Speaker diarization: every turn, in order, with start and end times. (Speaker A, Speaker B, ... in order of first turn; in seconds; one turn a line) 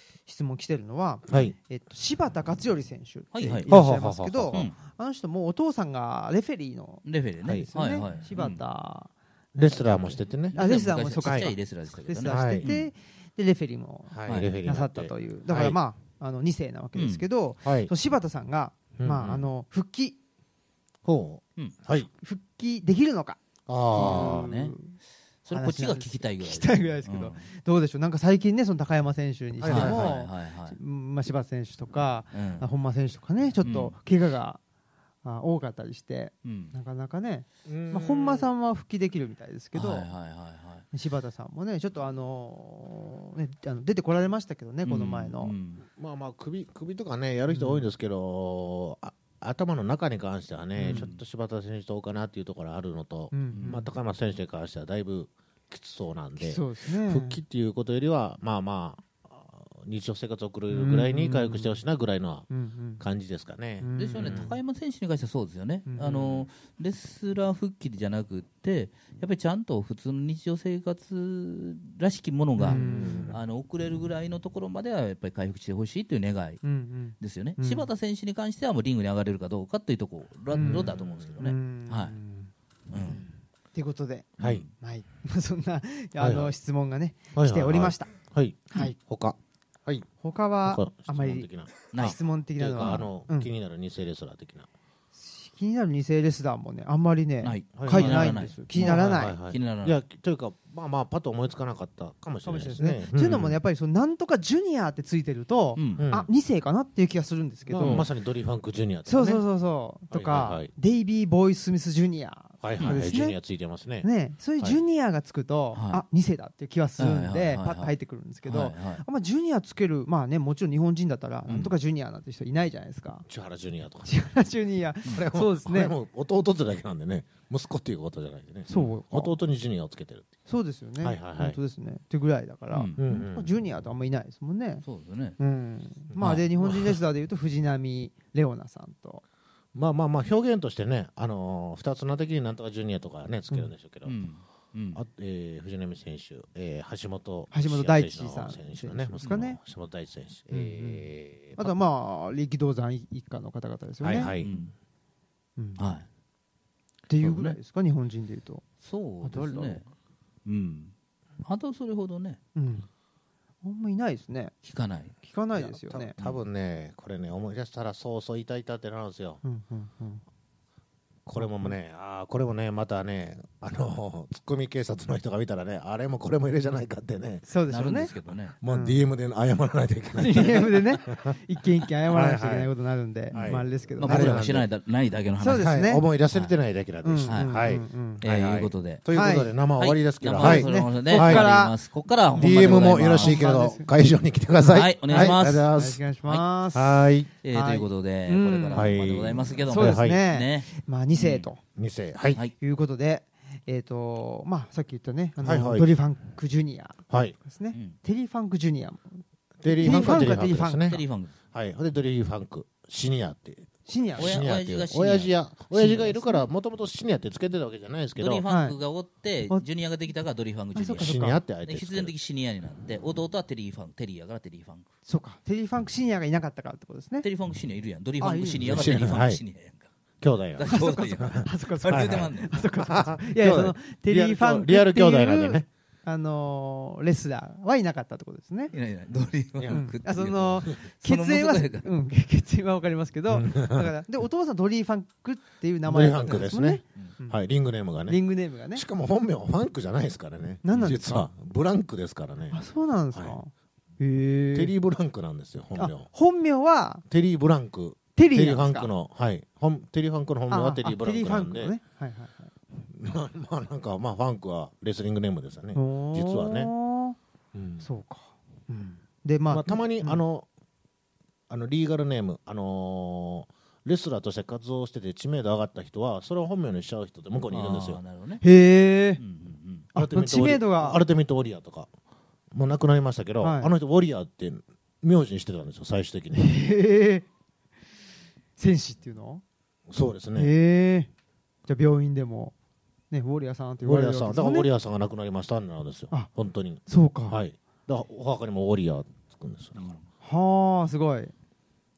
Speaker A: 0.2-7.0
Speaker B: 1.3-1.5
Speaker C: 3.3-3.7
Speaker B: 3.6-4.6
Speaker C: 7.0-8.6
Speaker B: 7.4-7.7
Speaker A: 7.7-20.2
Speaker B: 9.6-10.6
Speaker C: 10.5-12.9
Speaker B: 11.2-11.5
Speaker B: 12.3-12.7
Speaker B: 14.1-15.8
Speaker C: 14.3-14.5
Speaker C: 16.9-17.2
Speaker B: 17.6-17.9
Speaker B: 18.9-19.4
Speaker B: 21.0-22.1
Speaker A: 22.1-23.4
Speaker B: 23.7-24.5
Speaker A: 23.9-25.0
Speaker C: 23.9-24.8
Speaker C: 25.4-27.4
Speaker A: 25.5-34.6
Speaker B: 29.6-30.1
Speaker C: 29.6-30.8
Speaker C: 32.3-32.6
Speaker C: 33.6-33.9
Speaker A: 35.2-40.1
Speaker C: 36.4-36.7
Speaker B: 37.6-38.5
Speaker C: 39.7-40.9
Speaker A: 40.9-45.5
Speaker C: 44.8-45.8
Speaker B: 45.8-62.5
Speaker A: 47.5-47.9
Speaker A: 50.8-51.1
Speaker C: 50.8-51.2
Speaker A: 53.3-53.9
Speaker C: 53.5-53.8
Speaker A: 56.4-57.4
Speaker A: 60.7-61.8
Speaker A: 62.5-63.0
Speaker B: 63.0-64.5
Speaker A: 63.8-64.5
Speaker C: 63.9-76.6
Speaker A: 65.8-66.4
Speaker A: 72.6-73.4
Speaker B: 72.6-73.4
Speaker A: 76.6-77.9
Speaker C: 77.2-82.2
Speaker A: 80.5-82.5
Speaker B: 80.6-81.4
Speaker C: 82.9-83.2
Speaker A: 83.0-88.1
Speaker B: 84.4-84.6
Speaker C: 84.4-84.7
Speaker B: 86.2-86.5
Speaker B: 87.3-90.1
Speaker A: 88.7-89.0
Speaker A: 90.2-93.5
Speaker B: 90.6-94.7
Speaker A: 95.2-99.4
Speaker C: 97.4-100.0
Speaker B: 97.7-103.6
Speaker A: 102.4-108.0
Speaker C: 105.8-106.1
Speaker B: 106.0-106.3
Speaker B: 107.7-109.4
Speaker C: 107.8-108.1
Speaker A: 109.0-113.4
Speaker B: 110.1-110.7
Speaker B: 112.6-114.1
Speaker A: 114.0-123.2
Speaker C: 115.7-116.0
Speaker C: 117.0-117.9
Speaker C: 118.4-119.0
Speaker B: 123.3-124.2
Speaker A: 124.0-125.9
Speaker B: 125.1-130.3
Speaker A: 128.7-129.3
Speaker A: 130.5-134.8
Speaker B: 131.0-131.6
Speaker C: 132.7-133.0
Speaker B: 133.0-133.5
Speaker C: 134.8-135.4
Speaker A: 135.4-139.2
Speaker B: 136.1-137.0
Speaker B: 139.7-144.2
Speaker C: 144.0-145.0
Speaker B: 144.9-151.7
Speaker A: 147.5-149.6
Speaker A: 150.5-154.3
Speaker B: 154.0-154.7
Speaker C: 154.4-154.7
Speaker A: 155.6-155.9
Speaker C: 155.8-156.1
Speaker A: 157.1-158.6
Speaker C: 157.2-157.6
Speaker C: 158.8-159.9
Speaker A: 159.2-159.8
Speaker C: 160.4-162.4
Speaker A: 162.5-162.9
Speaker A: 163.6-164.5
Speaker C: 164.6-165.2
Speaker A: 165.2-166.1
Speaker B: 165.5-169.4
Speaker A: 169.4-170.2
Speaker B: 171.2-177.4
Speaker A: 171.4-171.8
Speaker A: 177.5-178.1
Speaker C: 177.7-178.5
Speaker B: 178.6-181.4
Speaker A: 178.7-179.0
Speaker A: 180.2-184.4
Speaker B: 182.1-182.7
Speaker B: 183.3-184.7
Speaker C: 183.3-185.8
Speaker A: 185.4-186.1
Speaker B: 185.5-191.5
Speaker A: 187.0-188.2
Speaker C: 187.3-187.7
Speaker C: 188.2-193.5
Speaker A: 189.1-189.5
Speaker A: 190.3-191.7
Speaker B: 192.3-196.0
Speaker A: 192.3-193.9
Speaker C: 194.6-195.7
Speaker A: 195.1-198.9
Speaker B: 196.7-197.3
Speaker C: 197.4-201.5
Speaker B: 198.7-200.2
Speaker A: 199.7-201.6
Speaker B: 201.8-202.4
Speaker A: 202.6-211.0
Speaker B: 205.4-205.9
Speaker B: 207.1-207.4
Speaker B: 209.6-218.4
Speaker C: 209.8-211.3
Speaker A: 213.8-214.5
Speaker C: 214.2-215.3
Speaker A: 215.7-216.5
Speaker C: 218.2-224.8
Speaker A: 218.4-218.8
Speaker A: 220.7-221.4
Speaker B: 221.0-222.1
Speaker A: 225.1-227.3
Speaker C: 227.2-229.9
Speaker A: 228.2-228.9
Speaker B: 228.6-229.4
Speaker B: 230.2-235.7
Speaker C: 230.6-232.6
Speaker A: 230.7-238.7
Speaker C: 238.7-241.9
Speaker B: 239.6-239.8
Speaker A: 239.7-247.4
Speaker B: 243.3-243.9
Speaker B: 245.8-248.2
Speaker A: 248.1-248.8
Speaker B: 248.7-253.4
Speaker A: 250.6-251.2
Speaker A: 252.5-254.7
Speaker B: 254.5-256.1
Speaker A: 255.8-257.0
Speaker B: 257.1-261.8
Speaker A: 258.1-258.9
Speaker A: 260.5-262.5
Speaker B: 262.8-266.7
Speaker A: 265.7-267.2
Speaker B: 267.5-267.8
Speaker A: 267.8-270.2
Speaker B: 269.5-270.5
Speaker B: 271.5-278.0
Speaker C: 277.5-278.4
Speaker A: 278.4-279.2
Speaker C: 279.2-279.9
Speaker A: 279.9-281.0
Speaker B: 279.9-281.9
Speaker B: 282.5-286.5
Speaker A: 283.4-283.7
Speaker A: 286.3-287.2
Speaker A: 288.6-289.4
Speaker B: 289.9-290.5
Speaker A: 290.3-291.1
Speaker A: 291.7-292.5
Speaker A: 293.1-294.7
Speaker B: 293.8-300.0
Speaker A: 296.9-297.4
Speaker C: 299.8-300.1
Speaker A: 300.2-301.3